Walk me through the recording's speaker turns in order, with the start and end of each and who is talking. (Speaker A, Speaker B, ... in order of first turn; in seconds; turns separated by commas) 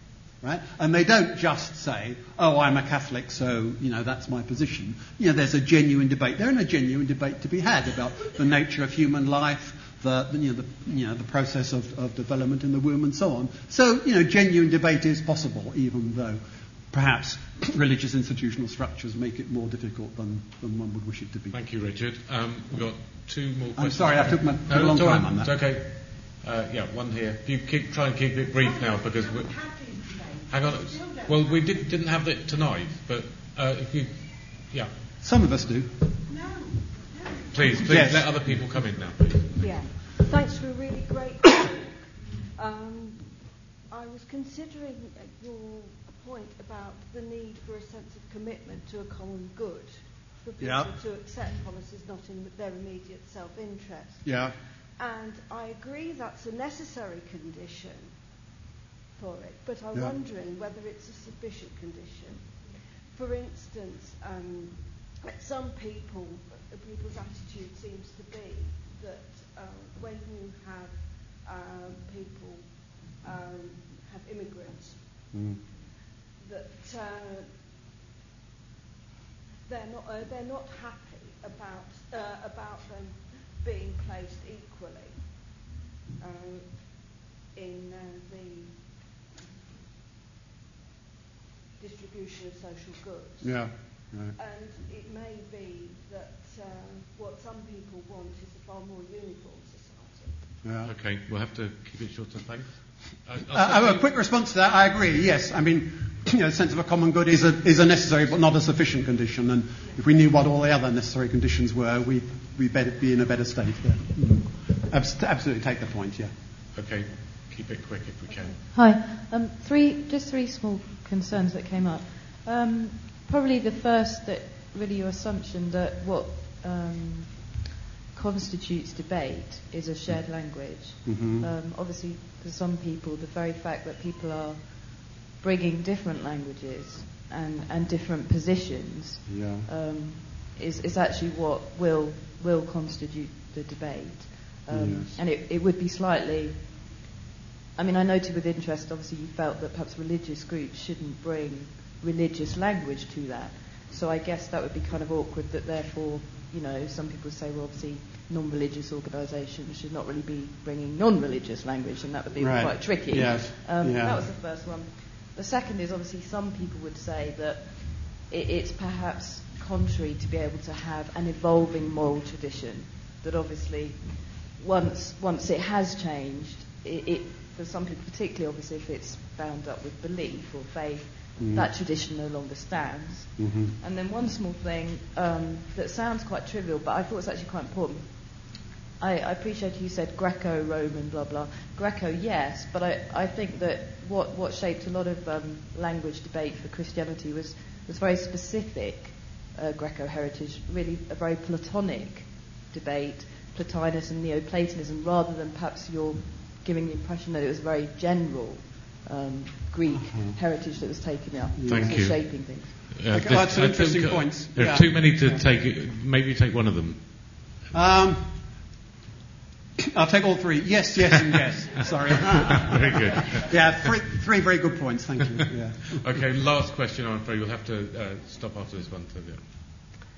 Speaker A: 0.4-21.6, Speaker B: 21.5-34.9, Speaker A: 23.8-25.5, Speaker A: 35.2-35.9, Speaker B: 37.5-39.6, Speaker A: 37.9-38.6, Speaker C: 39.6-42.0, Speaker C: 42.5-58.1, Speaker A: 50.6-50.9, Speaker A: 54.2-54.5, Speaker C: 59.1-75.3, Speaker C: 76.4-77.6, Speaker C: 79.7-85.6, Speaker C: 86.2-89.4, Speaker C: 91.8-100.5, Speaker A: 93.4-94.3, Speaker A: 100.6-100.9, Speaker B: 100.8-104.1, Speaker A: 103.5-116.3, Speaker B: 116.7-118.6, Speaker D: 118.7-146.8, Speaker A: 131.0-131.5, Speaker A: 139.3-139.7, Speaker A: 144.7-145.1, Speaker D: 147.8-213.0, Speaker A: 162.4-164.2, Speaker A: 181.4-181.7, Speaker A: 183.4-183.7, Speaker A: 209.9-210.4, Speaker A: 211.5-212.5, Speaker B: 211.7-217.4, Speaker A: 213.1-215.4, Speaker A: 217.7-218.3, Speaker A: 219.9-226.0, Speaker B: 222.1-223.5, Speaker B: 225.9-229.4